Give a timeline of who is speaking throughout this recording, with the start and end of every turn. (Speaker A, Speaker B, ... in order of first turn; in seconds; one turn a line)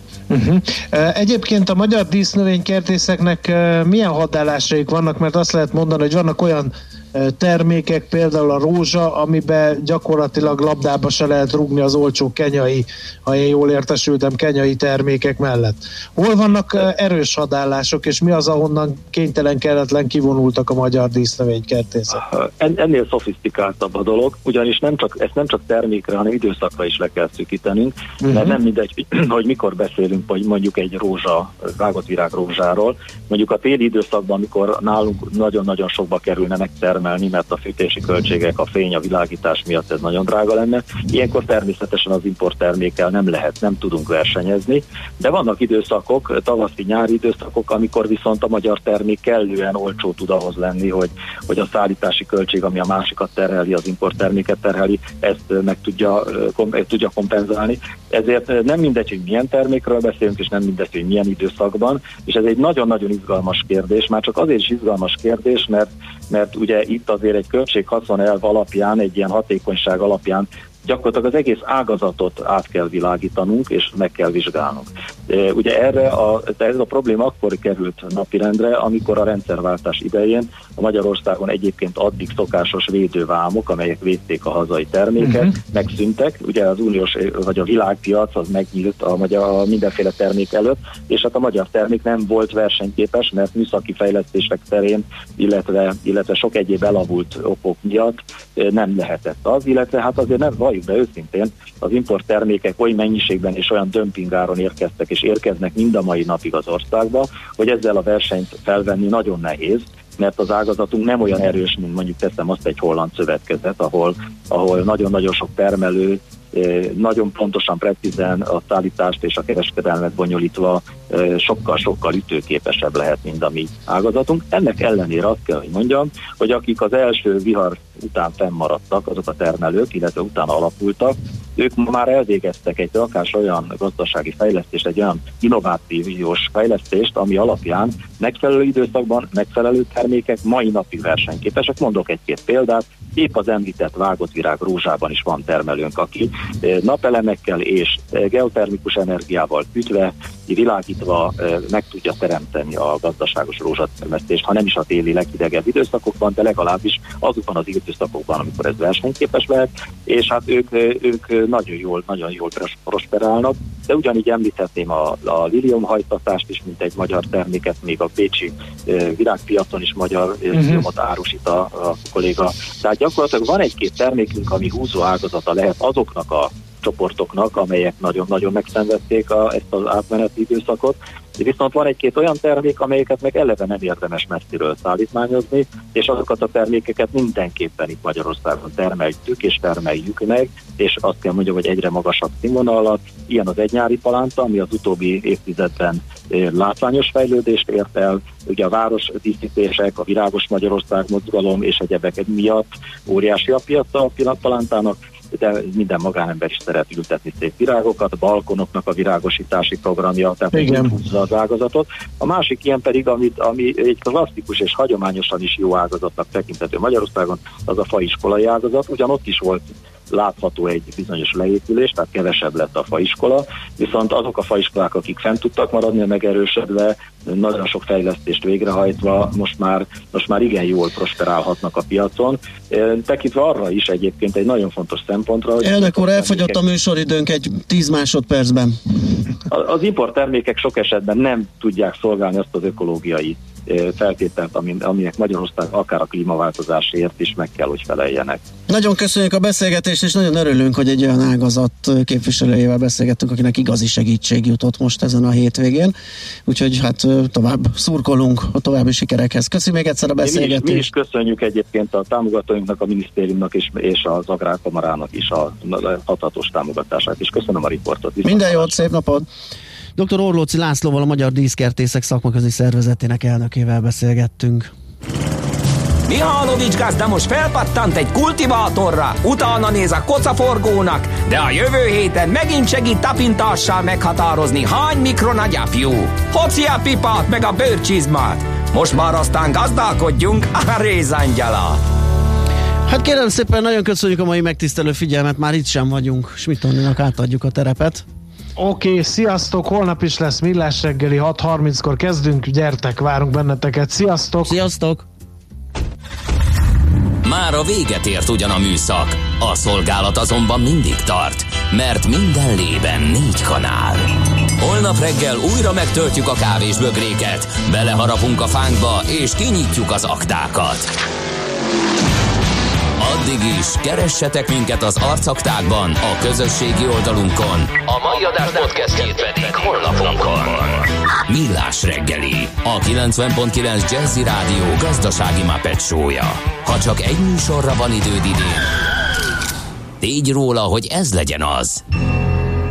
Speaker A: 0.3-22.2
Speaker B: 22.2-236.6
Speaker A: 85.2-85.5
Speaker A: 170.5-170.8
Speaker A: 210.5-210.9
Speaker C: 235.6-238.8
Speaker B: 239.5-248.4
Speaker C: 248.7-255.9
Speaker C: 256.5-260.9
Speaker B: 260.2-268.8
Speaker C: 268.2-269.3
Speaker C: 270.0-274.7
Speaker D: 276.1-291.8
Speaker C: 292.9-298.0
Speaker A: 298.6-304.5
Speaker C: 304.4-305.1
Speaker D: 307.2-320.9
Speaker D: 323.0-338.6
Speaker D: 340.0-341.8